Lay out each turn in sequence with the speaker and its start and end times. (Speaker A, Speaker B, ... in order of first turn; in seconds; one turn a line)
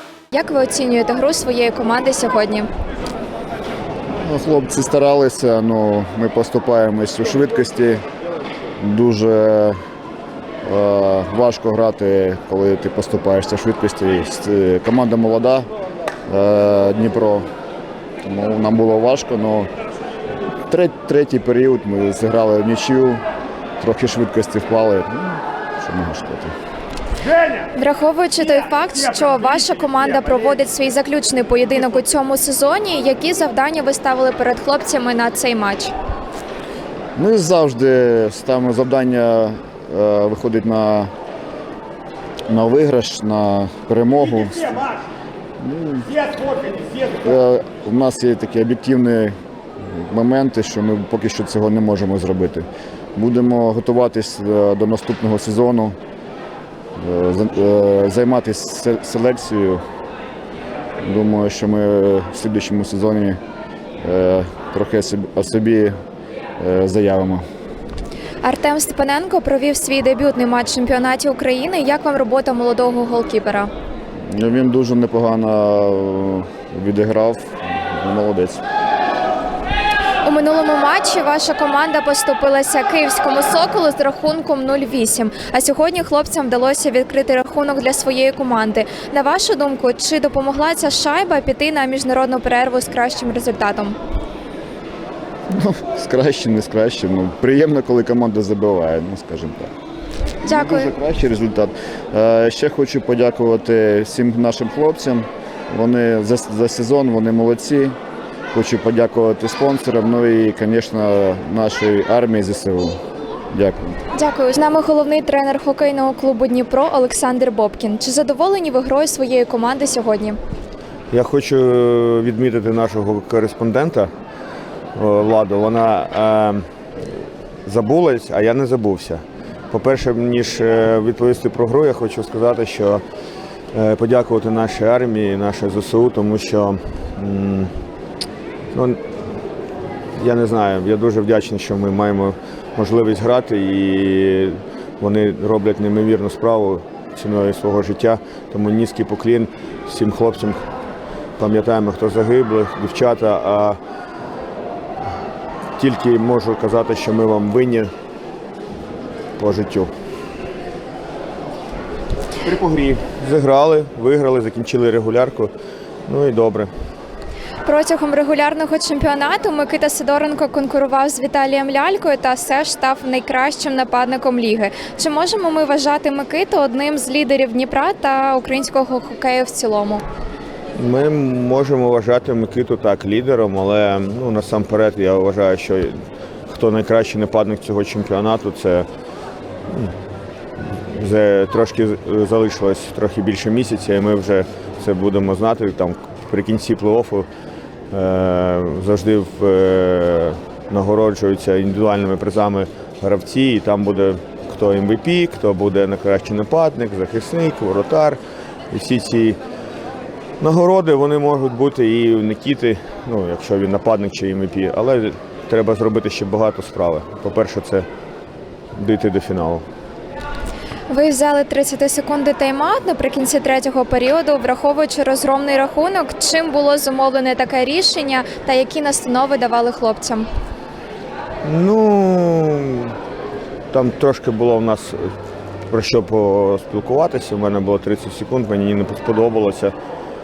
Speaker A: 0.3-2.7
Speaker B: 4.2-8.0
Speaker B: 8.8-9.8
Speaker B: 10.6-15.7
Speaker B: 16.3-17.4
Speaker B: 18.2-19.7
Speaker B: 20.7-23.2
Speaker B: 23.8-26.5
Speaker A: 27.8-35.9
Speaker B: 37.2-41.1
Speaker B: 42.5-44.8
Speaker B: 45.6-46.2
Speaker B: 47.2-49.4
Speaker B: 49.9-56.0
Speaker B: 57.0-59.8
Speaker B: 61.0-63.4
Speaker B: 64.0-65.9
Speaker B: 66.6-67.4
Speaker A: 68.4-73.7
Speaker B: 74.3-78.6
Speaker A: 80.2-94.0
Speaker B: 95.5-99.7
Speaker B: 100.4-108.0
Speaker A: 100.5-100.9
Speaker B: 108.5-113.0
Speaker B: 113.5-114.0
Speaker A: 114.1-120.4
Speaker C: 121.1-124.1
Speaker C: 125.0-126.6
Speaker C: 127.7-133.0
Speaker C: 133.7-137.7
Speaker C: 138.7-139.0
Speaker C: 140.2-150.6
Speaker C: 151.4-153.8
Speaker C: 155.8-157.9
Speaker C: 159.4-159.9
Speaker C: 162.4-165.5
Speaker C: 166.1-166.7
Speaker A: 167.7-180.0
Speaker C: 180.8-186.0
Speaker C: 186.5-188.9
Speaker C: 189.7-189.9
Speaker C: 190.9-197.3
Speaker C: 197.9-208.2
Speaker C: 208.7-209.4
Speaker C: 210.4-217.9
Speaker C: 218.8-219.7
Speaker A: 220.9-230.3
Speaker C: 231.4-233.0
Speaker C: 233.7-235.1
Speaker C: 235.7-239.7